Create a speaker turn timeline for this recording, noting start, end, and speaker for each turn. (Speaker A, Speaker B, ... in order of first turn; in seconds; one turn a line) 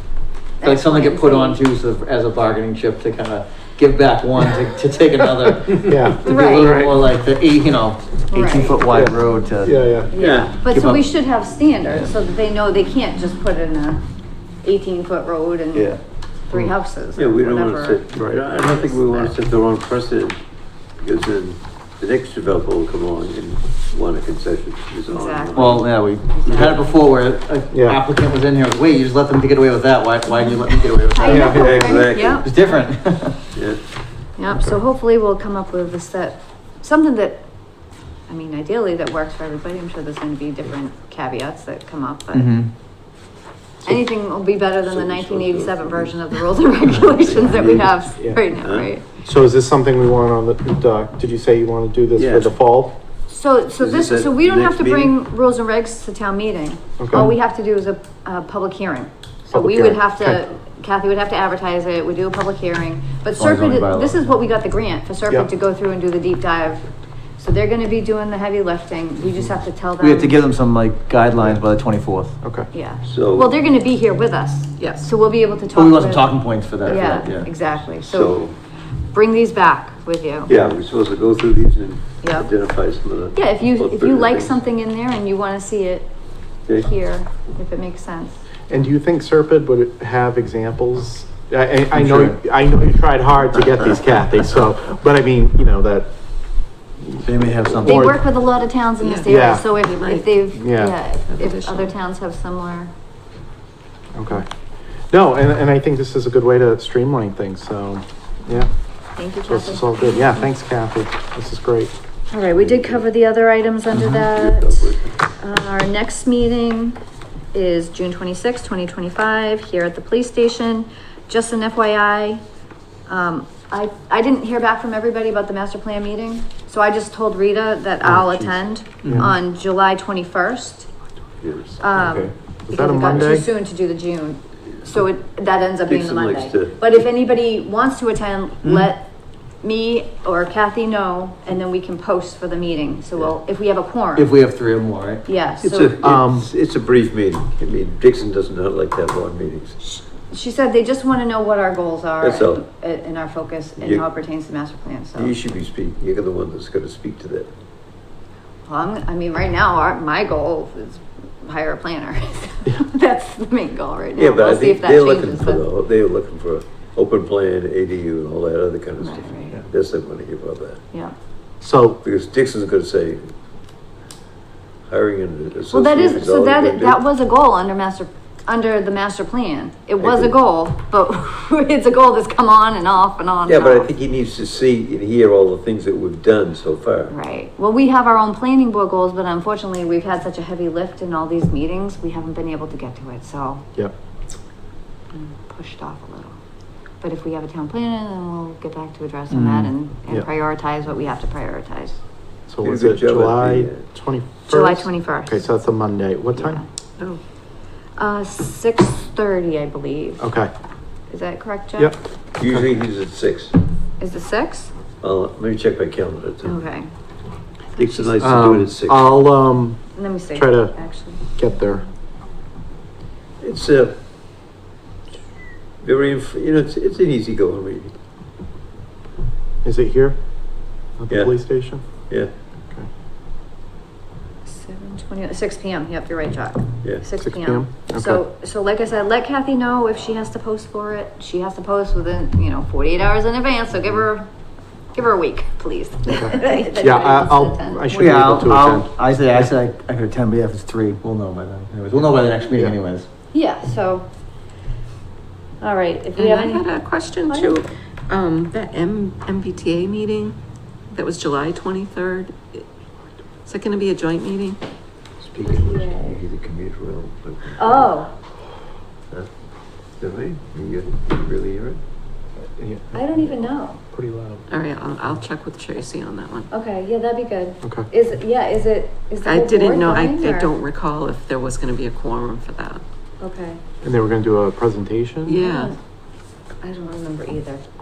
Speaker A: 0.6-1.6
Speaker B: 0.6-9.8
Speaker C: 5.8-6.2
Speaker A: 6.2-6.8
Speaker A: 8.3-8.9
Speaker C: 8.9-10.1
Speaker A: 10.1-14.0
Speaker D: 10.2-10.6
Speaker B: 10.6-11.0
Speaker A: 14.6-15.9
Speaker B: 15.7-16.0
Speaker A: 16.5-19.3
Speaker D: 17.1-20.4
Speaker C: 18.1-18.4
Speaker D: 21.0-25.8
Speaker A: 25.1-26.7
Speaker B: 25.5-33.4
Speaker C: 27.7-28.0
Speaker A: 31.1-32.8
Speaker D: 31.2-32.5
Speaker C: 31.2-31.7
Speaker A: 34.4-37.5
Speaker A: 38.3-42.5
Speaker B: 42.3-42.7
Speaker A: 43.8-49.0
Speaker D: 44.8-48.9
Speaker C: 48.2-48.4
Speaker C: 49.2-53.0
Speaker D: 52.2-52.5
Speaker A: 53.3-70.4
Speaker D: 53.8-55.2
Speaker C: 57.0-57.4
Speaker C: 59.5-60.4
Speaker B: 63.4-64.2
Speaker B: 70.0-72.4
Speaker C: 72.4-72.7
Speaker A: 72.7-78.4
Speaker D: 73.0-73.5
Speaker E: 74.8-75.0
Speaker B: 75.7-77.5
Speaker D: 76.9-77.2
Speaker D: 78.0-78.5
Speaker A: 79.1-80.5
Speaker D: 80.5-84.6
Speaker A: 82.2-82.5
Speaker A: 83.3-86.1
Speaker A: 86.7-88.4
Speaker C: 88.7-96.1
Speaker B: 91.9-92.3
Speaker C: 97.0-98.3
Speaker B: 97.2-98.2
Speaker A: 97.8-102.9
Speaker E: 99.0-100.6
Speaker C: 99.2-99.7
Speaker C: 100.5-101.0
Speaker E: 101.3-101.9
Speaker C: 104.1-104.5
Speaker C: 105.1-108.7
Speaker A: 109.2-110.5
Speaker C: 109.5-111.9
Speaker A: 112.3-117.0
Speaker D: 112.5-113.1
Speaker D: 114.1-115.2
Speaker A: 117.5-122.4
Speaker A: 123.1-130.9
Speaker C: 128.0-129.3
Speaker B: 129.0-129.3
Speaker D: 131.4-132.3
Speaker A: 131.8-139.1
Speaker C: 132.0-133.5
Speaker D: 135.8-136.8
Speaker B: 138.6-138.9
Speaker A: 139.6-144.3
Speaker B: 144.2-145.2
Speaker A: 145.2-146.0
Speaker D: 145.6-149.8
Speaker C: 146.0-146.5
Speaker A: 149.8-155.3
Speaker D: 152.2-152.6
Speaker D: 153.8-154.1
Speaker D: 155.2-157.5
Speaker A: 158.7-165.7
Speaker D: 164.1-170.8
Speaker A: 169.0-169.6
Speaker C: 171.6-172.0
Speaker D: 172.0-173.2
Speaker D: 174.9-177.1
Speaker A: 175.7-183.9
Speaker D: 180.0-180.4
Speaker D: 183.4-187.1
Speaker A: 187.1-193.7
Speaker A: 195.1-196.4
Speaker A: 197.0-202.0
Speaker B: 199.3-199.7
Speaker C: 202.5-206.6
Speaker D: 202.6-203.8
Speaker A: 204.5-205.5
Speaker A: 206.3-206.7
Speaker A: 208.0-210.2
Speaker C: 210.2-210.5
Speaker A: 211.1-211.9
Speaker D: 212.4-213.5
Speaker A: 214.0-214.7
Speaker D: 215.0-216.6
Speaker A: 216.4-216.9
Speaker E: 217.7-218.1
Speaker D: 217.8-219.0
Speaker C: 218.2-219.8
Speaker A: 220.0-221.2
Speaker C: 220.3-220.7
Speaker C: 221.3-221.8
Speaker D: 223.4-223.9
Speaker D: 225.8-227.9
Speaker C: 229.6-230.2
Speaker C: 231.0-231.8
Speaker A: 234.4-244.3
Speaker C: 237.2-238.2
Speaker A: 244.9-248.0
Speaker C: 246.1-248.9
Speaker B: 247.9-253.1
Speaker A: 253.3-254.1
Speaker A: 255.6-256.7
Speaker E: 256.1-260.4
Speaker A: 257.3-257.6
Speaker E: 260.9-262.6
Speaker E: 263.4-264.6
Speaker D: 265.2-268.0
Speaker A: 265.4-266.2
Speaker A: 267.6-268.1
Speaker D: 270.0-271.8
Speaker C: 272.4-274.4
Speaker A: 272.9-273.8
Speaker E: 274.5-276.5
Speaker A: 276.5-280.5
Speaker E: 279.2-282.8
Speaker A: 283.2-283.6
Speaker C: 283.8-285.4
Speaker E: 285.2-285.7
Speaker A: 285.4-285.8
Speaker A: 286.6-287.6